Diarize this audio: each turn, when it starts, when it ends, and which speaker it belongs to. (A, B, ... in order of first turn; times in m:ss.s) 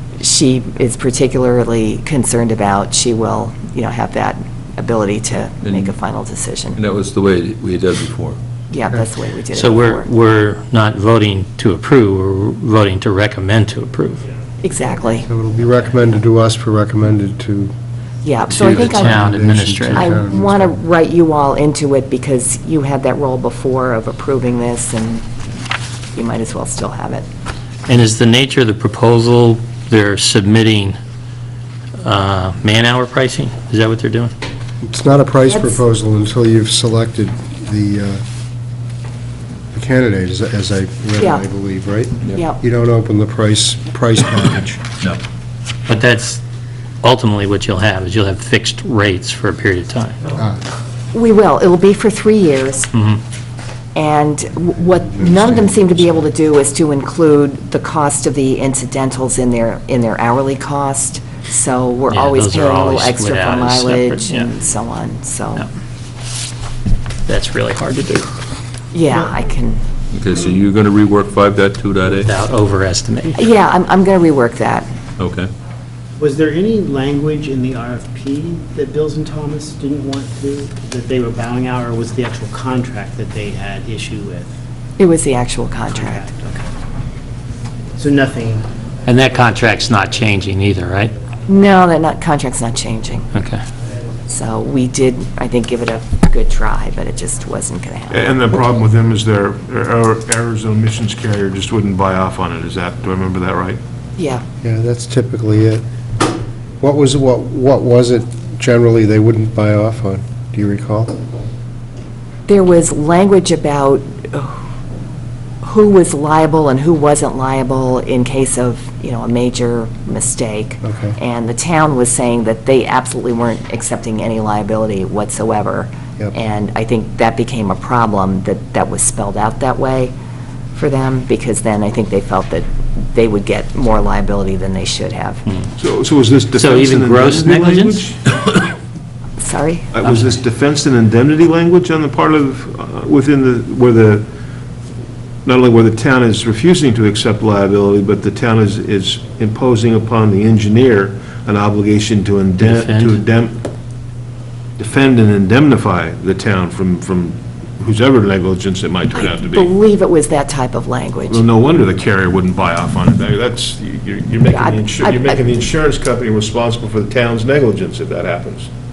0:00.2-0:06.8 A
0:05.6-0:05.9 B
0:06.7-0:08.4 B
0:08.7-0:10.1 A
0:09.5-0:14.2 C
0:14.6-0:15.3 A
0:15.3-0:17.7 D
0:18.2-0:19.3 A
0:18.5-0:20.8 D
0:18.5-0:20.1 C
0:19.9-0:25.3 A
0:26.1-0:27.2 A
0:27.9-0:31.0 C
0:32.0-0:34.3 C
0:34.8-0:38.2 D
0:35.5-0:35.8 A
0:39.7-0:44.8 D
0:41.2-0:41.4 A
0:42.3-0:42.6 A
0:45.9-0:46.4 C
0:47.0-0:50.2 C
0:51.1-0:52.9 A
0:53.9-1:05.7 A
0:55.1-0:56.3 D
1:02.1-1:04.4 C
1:07.3-1:08.3 C
1:08.9-1:09.8 A
1:10.1-1:12.3 B
1:12.2-1:13.4 C
1:13.4-1:14.9 A
1:15.2-1:15.5 B
1:16.2-1:24.5 E
1:25.0-1:26.3 A
1:25.9-1:26.7 E
1:28.0-1:28.7 E
1:29.0-1:31.1 C
1:31.5-1:33.3 A
1:33.3-1:33.6 C
1:34.3-1:38.3 A
1:38.1-1:43.8 F
1:44.2-1:44.4 A
1:44.6-1:45.8 D
1:46.8-1:51.2 D
1:52.5-1:54.6 A
1:55.6-2:10.1 A
2:00.8-2:01.2 D
2:10.7-2:15.4 A
2:15.8-2:18.2 F
2:16.5-2:18.1 C
2:19.4-2:20.0 A
2:19.9-2:24.3 F
2:20.0-2:20.3 C
2:25.4-2:33.6 F
2:32.6-2:33.2 C
2:34.8-2:39.7 F
2:39.1-2:41.4 A
2:41.3-2:48.7 F
2:44.5-2:45.4 A